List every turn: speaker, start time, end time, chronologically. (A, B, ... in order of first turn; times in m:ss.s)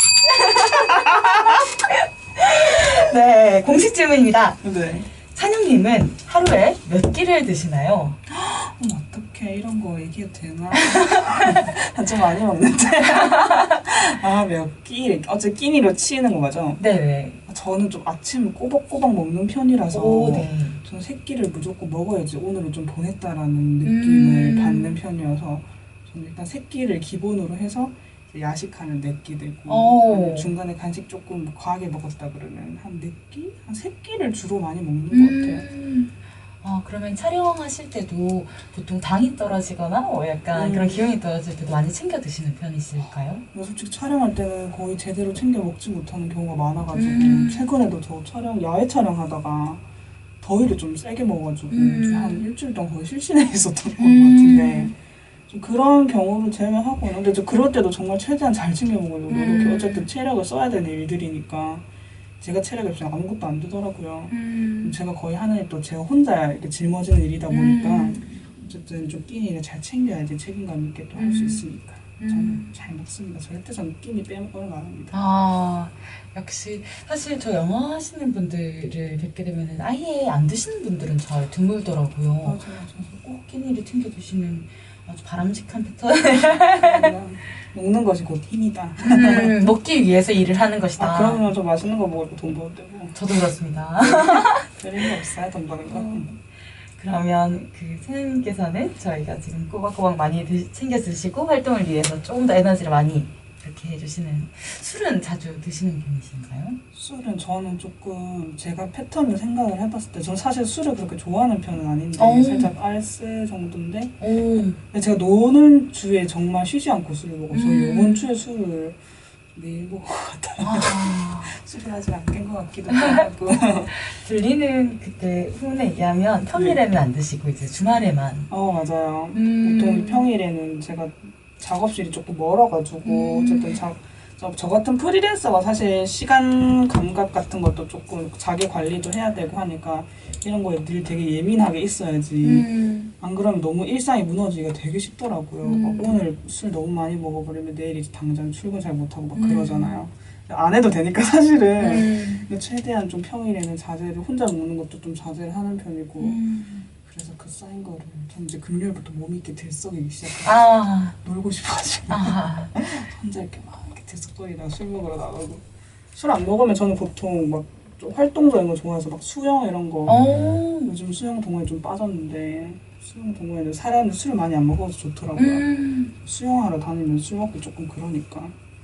0:00.3-0:08.2 A
0:04.6-0:05.1 B
0:08.3-0:16.8 B
0:10.8-0:11.2 A
0:16.8-0:17.4 A
0:17.5-0:35.7 B
0:19.9-0:20.8 A
0:23.8-0:25.0 A
0:29.7-0:30.5 A
0:35.1-0:43.4 A
0:40.5-0:41.2 B
0:43.5-1:15.2 B
0:46.9-0:47.7 A
0:51.7-0:52.5 A
0:54.0-0:54.9 A
0:59.3-1:00.1 A
1:04.3-1:05.0 A
1:07.5-1:08.5 A
1:11.2-1:11.7 A
1:12.2-1:12.8 A
1:15.1-1:27.1 A
1:22.4-1:23.2 B
1:26.7-1:29.6 B
1:29.0-1:31.5 A
1:31.0-1:33.2 B
1:33.1-1:35.0 A
1:34.0-1:36.3 B
1:35.8-1:46.8 A
1:46.9-1:54.2 B
1:52.2-1:52.7 A
1:54.2-1:54.8 A
1:54.9-2:04.1 B
1:57.5-1:58.3 A
2:00.6-2:01.6 A
2:02.9-2:03.2 A
2:04.1-2:08.5 A
2:06.5-2:06.8 B
2:08.5-2:22.7 B
2:09.3-2:10.3 A
2:13.0-2:13.8 A
2:22.4-2:23.1 A
2:23.2-2:36.4 B
2:25.6-2:26.2 A
2:29.4-2:30.0 A
2:31.8-2:32.5 A
2:36.2-2:36.9 A
2:37.0-2:40.6 B
2:40.4-2:41.2 A
2:41.2-2:58.6 B
2:42.1-2:42.8 A
2:50.1-2:51.0 A
2:55.4-2:56.1 A